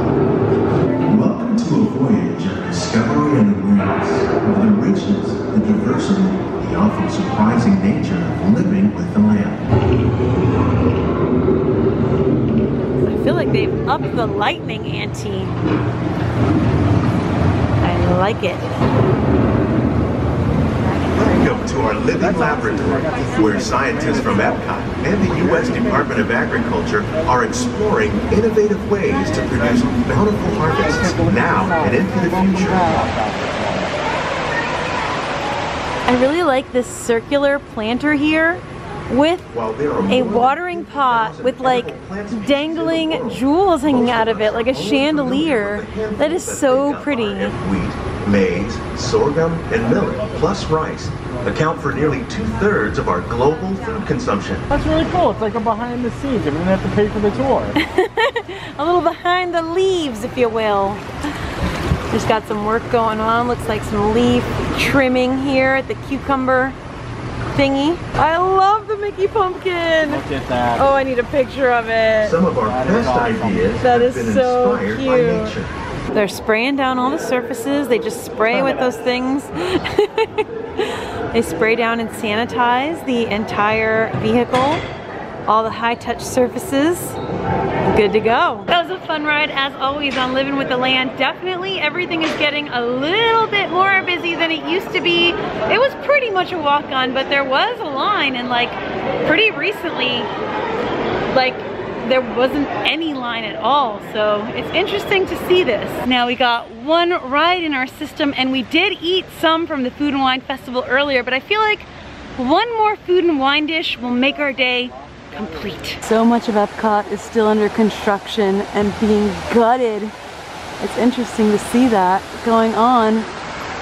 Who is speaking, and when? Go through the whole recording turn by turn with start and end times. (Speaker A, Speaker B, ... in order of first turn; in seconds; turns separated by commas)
Speaker A: 1.1-9.7, Speaker B: 13.0-15.6, Speaker B: 17.8-18.7, Speaker A: 21.2-33.0, Speaker C: 22.2-24.6, Speaker C: 25.4-26.1, Speaker C: 30.7-34.0, Speaker B: 36.1-39.5, Speaker A: 39.5-54.7, Speaker B: 40.1-47.5, Speaker C: 54.7-57.8, Speaker B: 57.8-61.1, Speaker B: 62.1-66.8, Speaker B: 67.5-72.4, Speaker C: 70.1-70.8, Speaker A: 72.2-75.7, Speaker C: 72.6-73.8, Speaker B: 73.8-75.6, Speaker B: 76.1-84.9, Speaker B: 85.5-87.2, Speaker B: 87.8-100.3, Speaker B: 101.3-120.2, Speaker B: 120.8-123.3